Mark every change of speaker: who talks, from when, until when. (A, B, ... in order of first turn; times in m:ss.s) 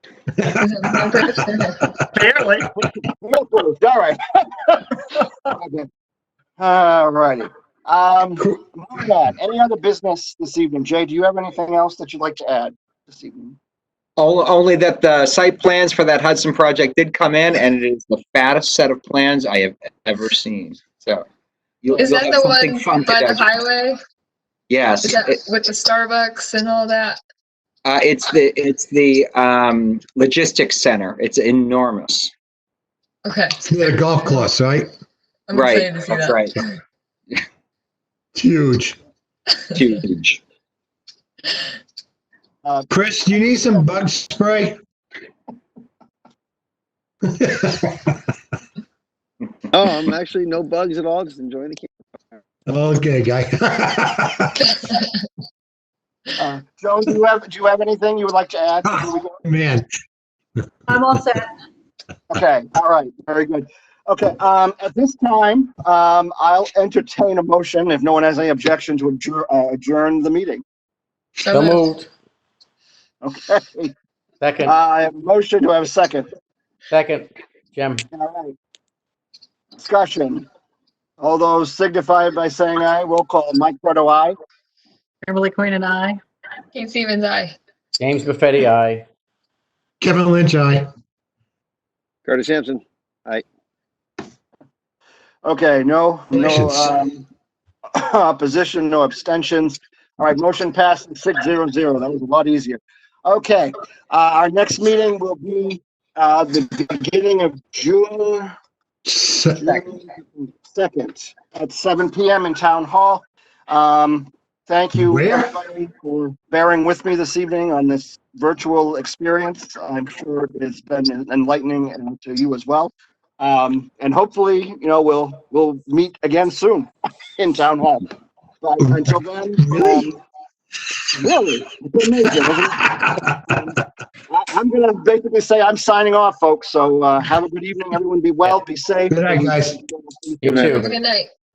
0:00.4-0:00.8 A
0:00.6-0:01.8 B
0:02.2-0:02.6 C
0:02.8-0:05.9 D
0:06.6-0:13.6 D
0:14.2-0:21.2 E
0:21.8-0:23.6 E
0:22.0-0:24.0 B
0:24.7-0:25.4 E
0:25.0-0:27.2 B
0:27.8-0:32.3 E
0:33.2-0:33.6 B
0:33.6-0:34.9 A
0:35.5-0:36.6 B
0:35.5-0:36.5 E
0:38.3-0:39.0 A
0:39.7-0:40.4 E
0:42.9-0:44.8 A
0:47.3-0:48.2 A
0:49.7-0:52.0 F
0:52.7-0:54.7 A
0:54.7-0:55.1 B
0:56.4-0:59.4 D
0:58.8-0:59.9 A
1:00.9-1:01.4 C
1:02.3-1:10.6 D
1:11.4-1:11.8 B
1:11.5-1:12.1 G
1:13.2-1:13.9 D
1:14.4-1:14.7 G
1:14.6-1:16.3 D
1:16.9-1:18.0 G
1:18.1-1:18.6 D
1:19.8-1:20.4 D
1:21.2-1:24.4 D
1:25.2-1:26.2 C
1:26.7-1:27.5 B
1:28.0-1:29.0 G
1:30.0-1:30.9 A
1:32.2-1:33.4 F
1:35.4-1:37.2 D
1:36.3-1:36.9 A
1:37.9-1:48.5 D
1:49.0-1:49.8 A
1:49.6-2:10.2 D
1:54.9-1:55.5 A
2:08.8-2:10.1 A
2:11.1-2:13.7 D
2:12.7-2:13.6 A
2:14.3-2:20.7 D
2:19.1-2:19.8 A
2:20.4-2:20.9 G
2:20.7-2:21.3 B